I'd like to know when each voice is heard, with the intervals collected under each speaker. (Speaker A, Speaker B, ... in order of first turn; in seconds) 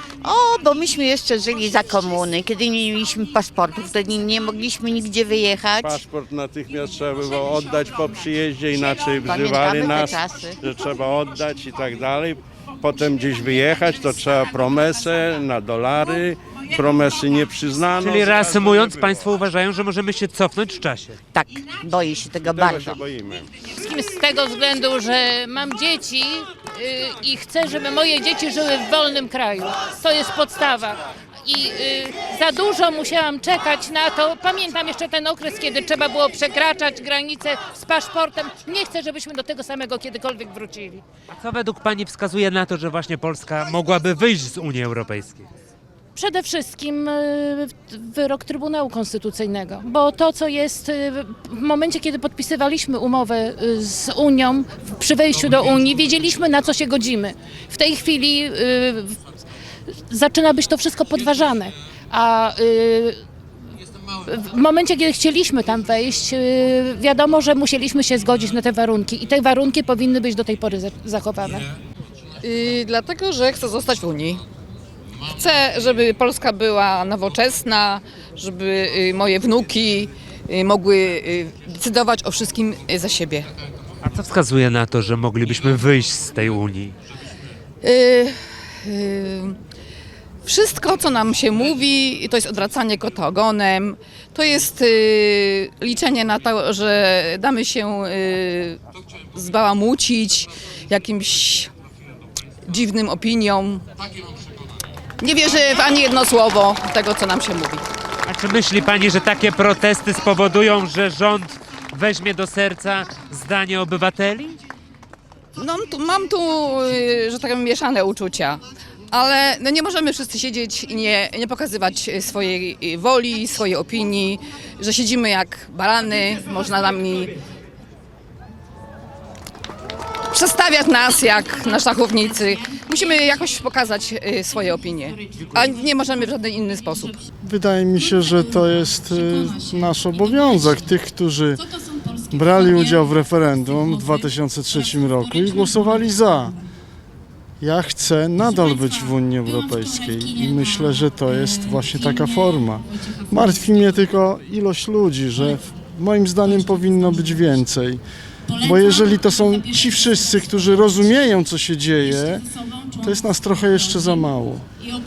Speaker A: 0.2-6.0, 9.2-10.6, 21.3-23.0
Speaker B: 5.8-19.3, 22.4-23.5
Speaker C: 18.0-21.2, 41.3-45.5, 84.0-87.0, 108.3-114.6
Speaker D: 23.8-41.0, 46.2-59.2, 60.1-63.2, 64.3-71.7
Speaker E: 72.4-74.4, 75.3-83.4, 87.8-89.5, 90.5-98.8, 99.4-101.7, 102.7-103.8, 105.2-107.8, 115.6-118.6, 119.1-127.3, 130.3-137.2
Speaker F: 137.4-141.6, 142.3-146.6, 147.6-158.0, 158.6-162.5, 163.0-164.7